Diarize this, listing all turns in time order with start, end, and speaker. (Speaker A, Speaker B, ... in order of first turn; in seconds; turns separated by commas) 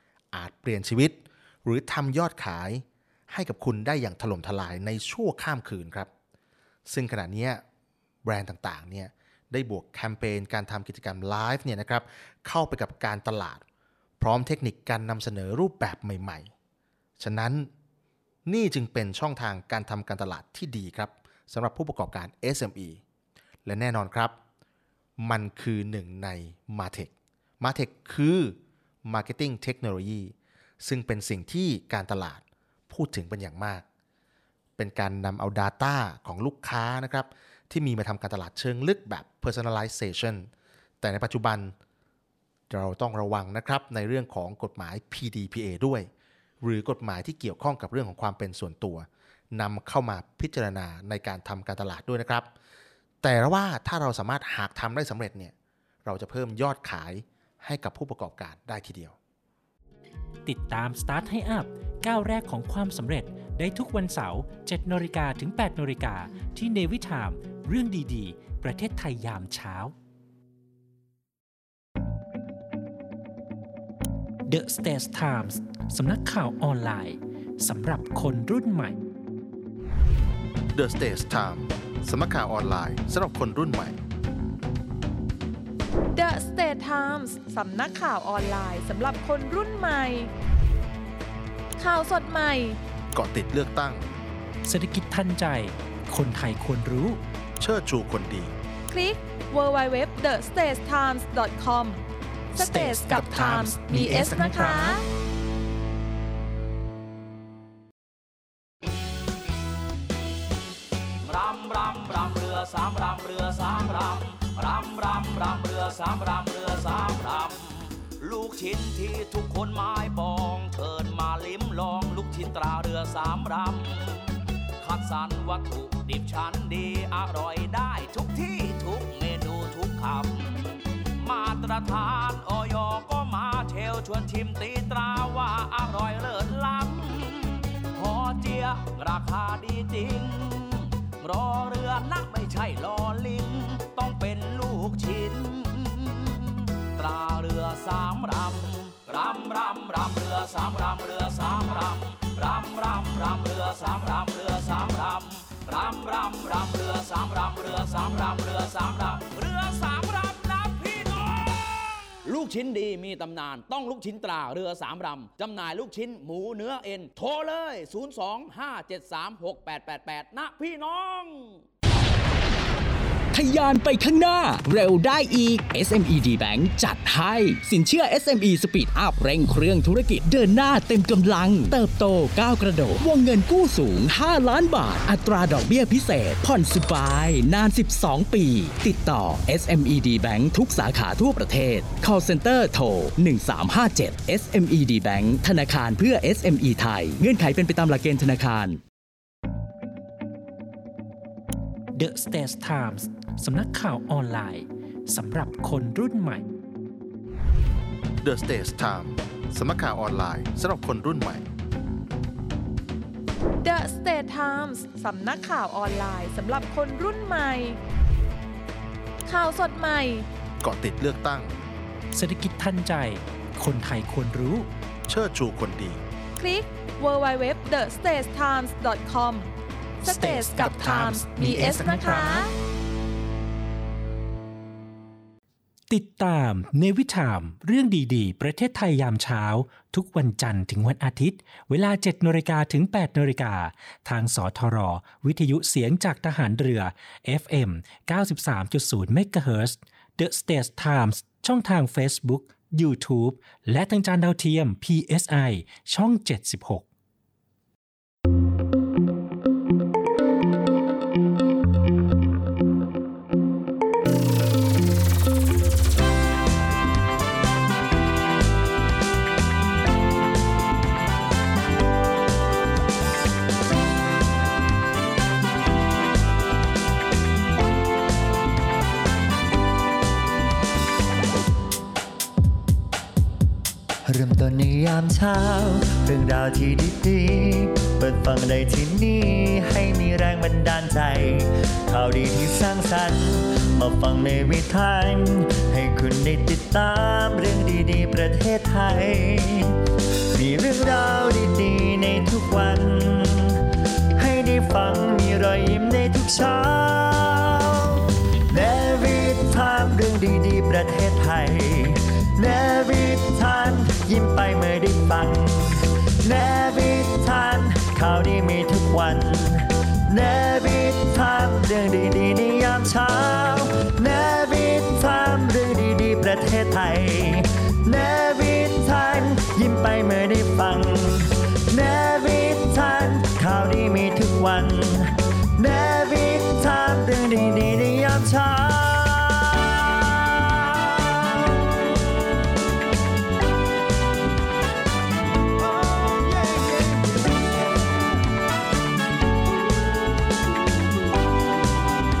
Speaker A: 0.3-6.1, Speaker A: 6.9-7.6, Speaker A: 8.2-13.6, Speaker A: 14.2-16.5, Speaker A: 17.2-17.7, Speaker A: 18.4-23.0, Speaker A: 23.6-24.4, Speaker A: 25.2-33.8, Speaker A: 34.8-40.5, Speaker A: 41.0-41.7, Speaker A: 42.7-46.1, Speaker A: 46.6-52.5, Speaker A: 53.2-55.5, Speaker A: 56.0-59.1, Speaker B: 60.5-69.9, Speaker B: 74.5-79.0, Speaker A: 80.7-84.0, Speaker C: 86.1-90.3, Speaker C: 91.8-92.8, Speaker A: 93.1-94.0, Speaker B: 94.7-97.2, Speaker A: 97.6-98.5, Speaker C: 98.9-102.0, Speaker C: 102.5-105.0, Speaker B: 102.6-105.0, Speaker D: 111.2-171.6, Speaker E: 173.3-198.8, Speaker B: 201.9-206.4, Speaker A: 208.2-211.4, Speaker C: 213.6-217.8, Speaker C: 219.2-220.3, Speaker A: 220.6-221.5, Speaker B: 222.1-224.7, Speaker A: 225.1-226.0, Speaker C: 226.4-229.5, Speaker C: 230.0-232.5, Speaker B: 230.0-232.5, Speaker B: 235.9-256.8, Speaker F: 284.1-299.8, Speaker F: 300.3-303.6, Speaker F: 304.2-342.2, Speaker F: 345.7-347.1